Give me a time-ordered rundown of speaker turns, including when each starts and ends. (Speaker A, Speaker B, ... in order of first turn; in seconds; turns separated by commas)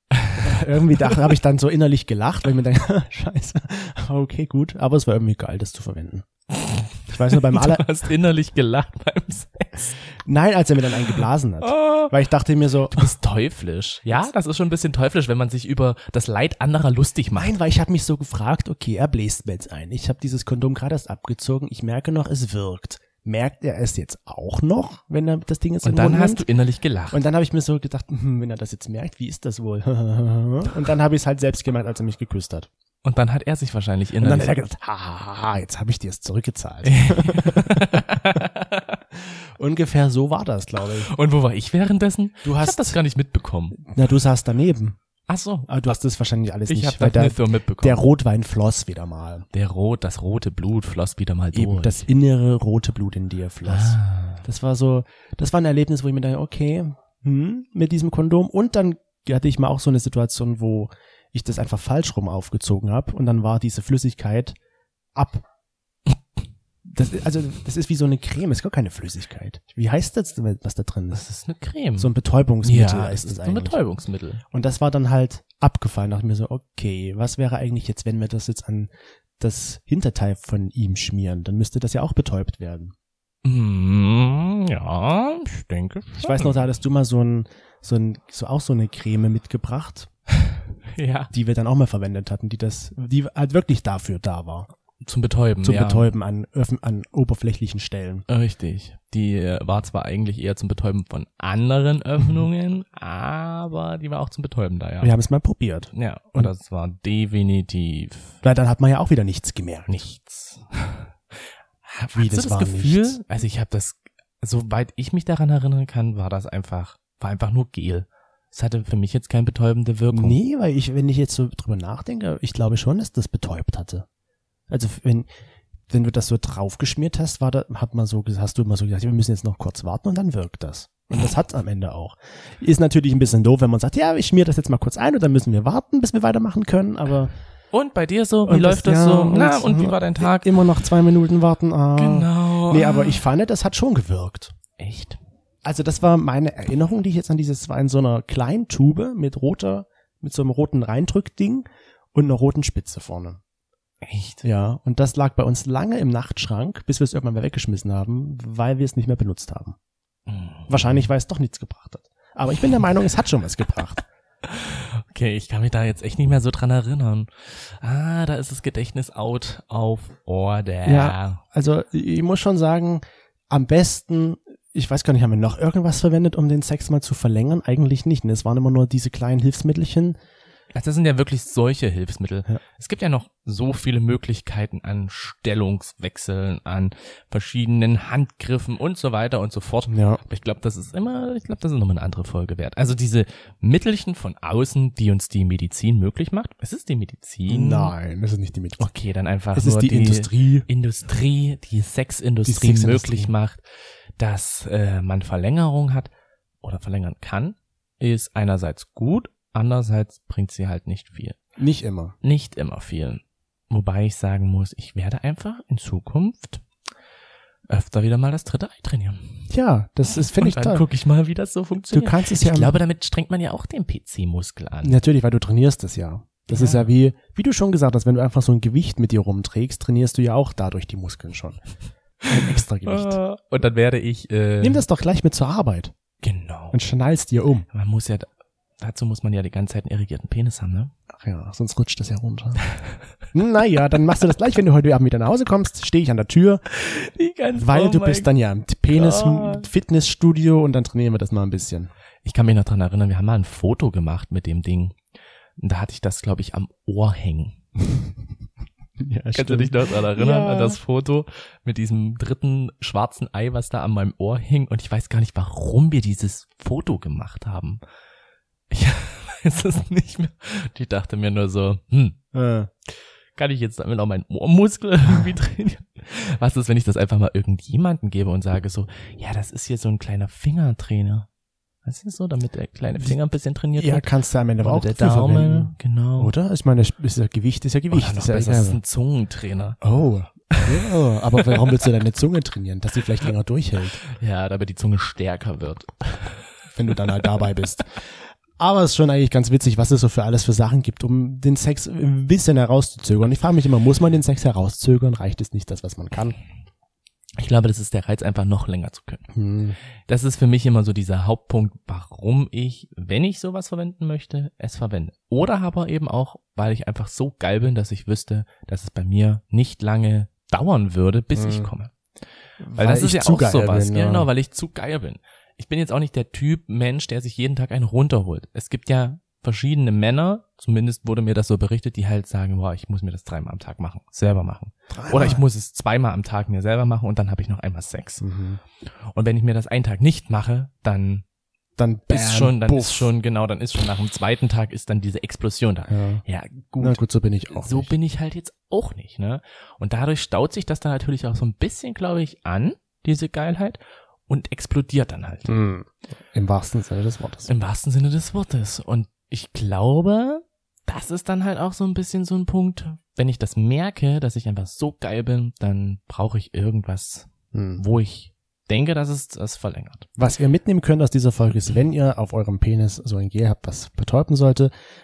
Speaker A: 0.3-6.2, Speaker B: 6.5-10.0, Speaker A: 7.1-7.8, Speaker A: 10.2-13.1, Speaker B: 11.6-12.1, Speaker B: 12.9-17.5, Speaker A: 17.3-26.4, Speaker B: 25.8-27.2, Speaker A: 27.1-32.7, Speaker B: 33.0-34.5, Speaker A: 34.2-38.1, Speaker B: 36.8-39.0, Speaker A: 39.2-41.1, Speaker B: 41.0-43.8, Speaker A: 42.4-43.0, Speaker A: 43.8-45.0, Speaker B: 45.3-45.7, Speaker A: 45.7-49.5, Speaker B: 46.7-48.0, Speaker B: 49.5-52.1, Speaker A: 51.5-64.5, Speaker B: 53.6-54.4, Speaker A: 65.1-65.4, Speaker A: 66.8-71.2, Speaker B: 71.1-72.1, Speaker A: 72.0-73.8, Speaker B: 72.6-74.4, Speaker A: 74.5-82.9, Speaker B: 83.4-86.6, Speaker A: 86.2-90.1, Speaker B: 90.9-91.3, Speaker A: 91.3-94.7, Speaker B: 95.0-96.1, Speaker A: 95.6-98.2, Speaker B: 98.3-105.1, Speaker A: 105.0-106.5, Speaker B: 105.9-108.4, Speaker A: 108.4-110.0, Speaker B: 109.9-111.1, Speaker B: 111.8-120.4, Speaker A: 112.1-113.2, Speaker A: 120.1-124.0, Speaker A: 124.7-125.3, Speaker A: 125.9-137.3, Speaker B: 137.7-140.5, Speaker A: 138.4-144.5, Speaker B: 141.9-143.2, Speaker B: 144.8-145.2, Speaker A: 145.6-153.4, Speaker B: 154.0-154.4, Speaker A: 154.4-159.8, Speaker B: 160.3-161.1, Speaker A: 160.7-164.0, Speaker B: 164.4-171.4, Speaker A: 170.8-180.2, Speaker B: 180.7-197.9, Speaker A: 189.9-190.2, Speaker A: 197.5-198.9, Speaker B: 198.8-203.6, Speaker A: 199.5-200.7, Speaker A: 202.4-203.3, Speaker B: 204.2-206.1, Speaker B: 206.6-211.4, Speaker A: 211.6-212.1, Speaker B: 212.2-216.6, Speaker B: 217.7-219.3, Speaker A: 219.5-220.8, Speaker B: 220.1-225.0, Speaker A: 221.9-222.8, Speaker A: 224.8-231.6, Speaker B: 226.5-226.8, Speaker B: 232.2-234.8, Speaker A: 232.3-233.2, Speaker A: 234.6-235.9, Speaker B: 236.2-236.8, Speaker A: 236.7-237.7, Speaker B: 237.7-238.3, Speaker B: 238.8-240.9, Speaker A: 241.1-242.6, Speaker A: 243.3-246.6, Speaker B: 246.7-248.3, Speaker A: 247.6-251.9, Speaker B: 248.9-249.7, Speaker B: 252.2-255.0, Speaker B: 255.6-257.6, Speaker A: 259.0-260.8, Speaker B: 259.3-267.8, Speaker B: 268.7-272.2, Speaker A: 272.3-272.7, Speaker B: 273.3-281.3, Speaker B: 281.8-284.1, Speaker A: 283.8-288.8, Speaker B: 284.6-286.3, Speaker B: 287.9-289.8, Speaker A: 289.8-294.0, Speaker B: 291.4-291.8, Speaker B: 294.0-296.4, Speaker A: 296.7-298.1, Speaker A: 298.6-306.4, Speaker B: 307.4-309.3, Speaker A: 309.3-309.8, Speaker B: 310.1-321.9, Speaker A: 321.3-321.7, Speaker A: 322.6-324.3, Speaker B: 322.8-338.2, Speaker A: 334.9-335.4, Speaker A: 338.2-338.6, Speaker B: 339.1-341.2, Speaker A: 341.8-343.1, Speaker B: 342.1-347.0, Speaker A: 345.9-346.2, Speaker A: 346.8-347.9, Speaker B: 347.5-355.6, Speaker A: 355.4-357.5, Speaker B: 357.5-370.1, Speaker A: 367.5-367.8, Speaker A: 370.2-374.7